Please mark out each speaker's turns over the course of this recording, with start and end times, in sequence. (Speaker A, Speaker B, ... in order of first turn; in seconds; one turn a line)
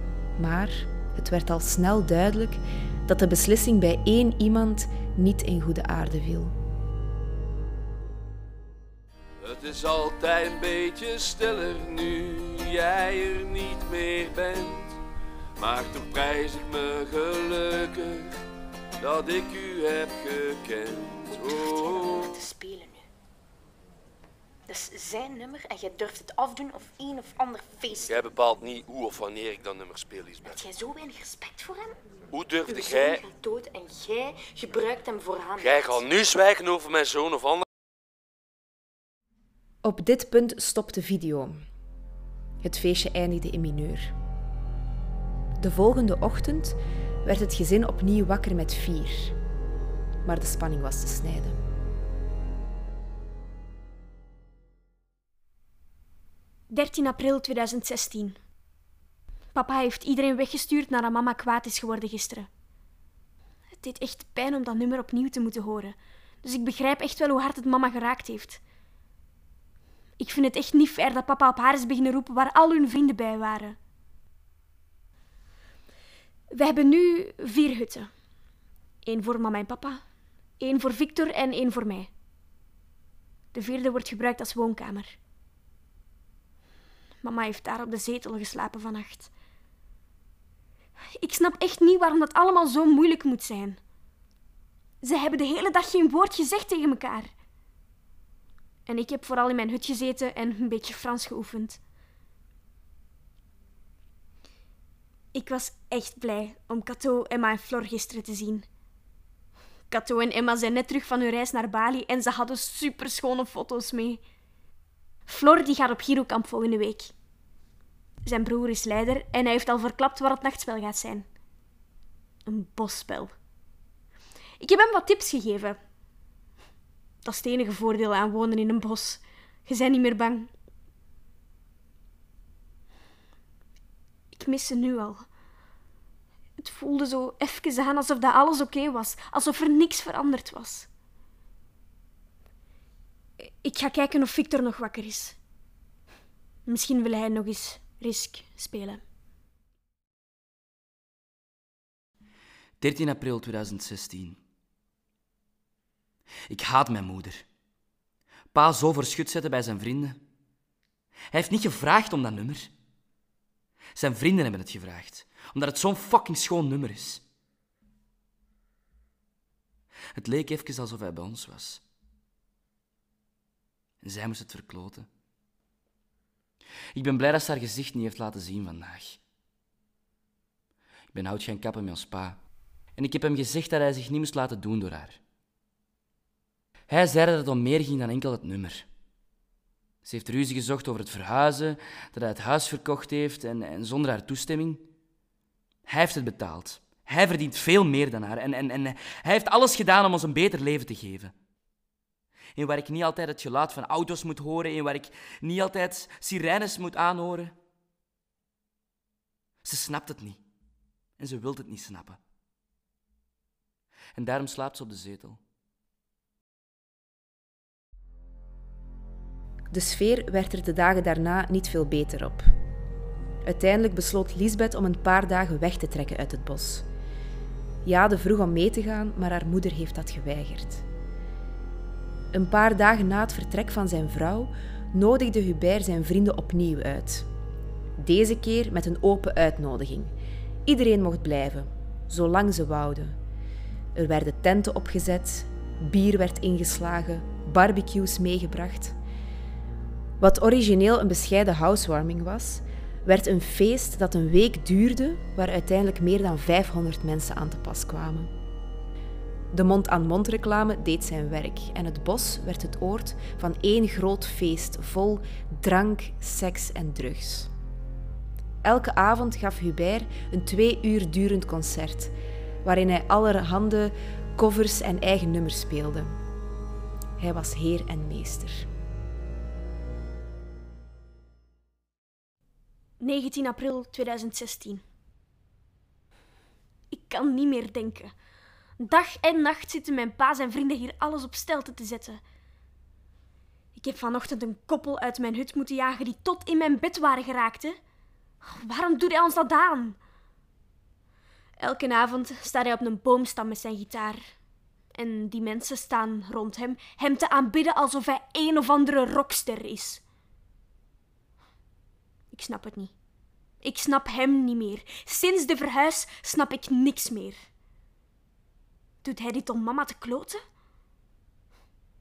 Speaker A: 0.4-6.5
Speaker B: 9.4-15.0
Speaker B: 15.6-18.4
Speaker B: 19.0-22.3
Speaker C: 21.3-23.1
Speaker C: 24.7-28.3
Speaker B: 28.1-30.6
Speaker C: 30.4-32.0
Speaker B: 32.3-33.2
Speaker C: 32.7-36.0
Speaker B: 35.6-37.6
Speaker A: 39.8-41.6
Speaker A: 42.6-44.1
Speaker A: 45.6-49.3
Speaker A: 50.2-51.6
Speaker D: 56.7-58.4
Speaker D: 59.5-62.5
Speaker D: 63.8-68.6
Speaker D: 70.2-73.8
Speaker D: 76.5-78.1
Speaker D: 79.0-80.0
Speaker D: 80.6-82.1
Speaker D: 83.5-85.2
Speaker D: 87.2-89.3
Speaker D: 91.2-93.8
Speaker D: 95.0-97.3
Speaker D: 98.8-101.8
Speaker D: 105.3-108.7
Speaker D: 109.9-114.2
Speaker D: 115.3-117.1
Speaker D: 118.2-121.2
Speaker D: 122.5-123.3
Speaker D: 124.6-125.8
Speaker D: 127.2-130.5
Speaker D: 134.3-135.2
Speaker D: 136.6-140.9
Speaker D: 143.4-145.3
Speaker D: 146.7-149.0
Speaker E: 152.8-154.4
Speaker E: 156.5-157.4
Speaker E: 158.5-160.2
Speaker E: 161.3-162.7
Speaker E: 163.9-167.2
Speaker E: 170.1-171.8
Speaker E: 174.0-175.1
Speaker E: 176.9-179.2
Speaker E: 181.1-182.4
Speaker E: 182.9-185.2
Speaker E: 186.9-188.9
Speaker E: 190.0-194.8
Speaker E: 195.8-201.3
Speaker E: 202.6-207.5
Speaker E: 209.6-210.4
Speaker E: 211.2-212.2
Speaker E: 214.1-215.4
Speaker A: 219.7-222.5
Speaker A: 223.4-226.8
Speaker A: 227.8-230.8
Speaker A: 232.3-237.2
Speaker A: 238.0-240.1
Speaker A: 240.7-243.2
Speaker A: 243.9-248.9
Speaker A: 250.2-258.3
Speaker A: 259.5-267.5
Speaker A: 268.6-272.1
Speaker A: 272.6-276.1
Speaker A: 277.2-278.7
Speaker D: 283.0-284.8
Speaker D: 286.9-288.1
Speaker D: 288.8-292.2
Speaker D: 293.8-297.8
Speaker D: 298.4-300.0
Speaker D: 301.6-304.2
Speaker D: 304.9-310.0
Speaker D: 312.3-312.9
Speaker D: 313.6-317.5
Speaker D: 319.0-320.4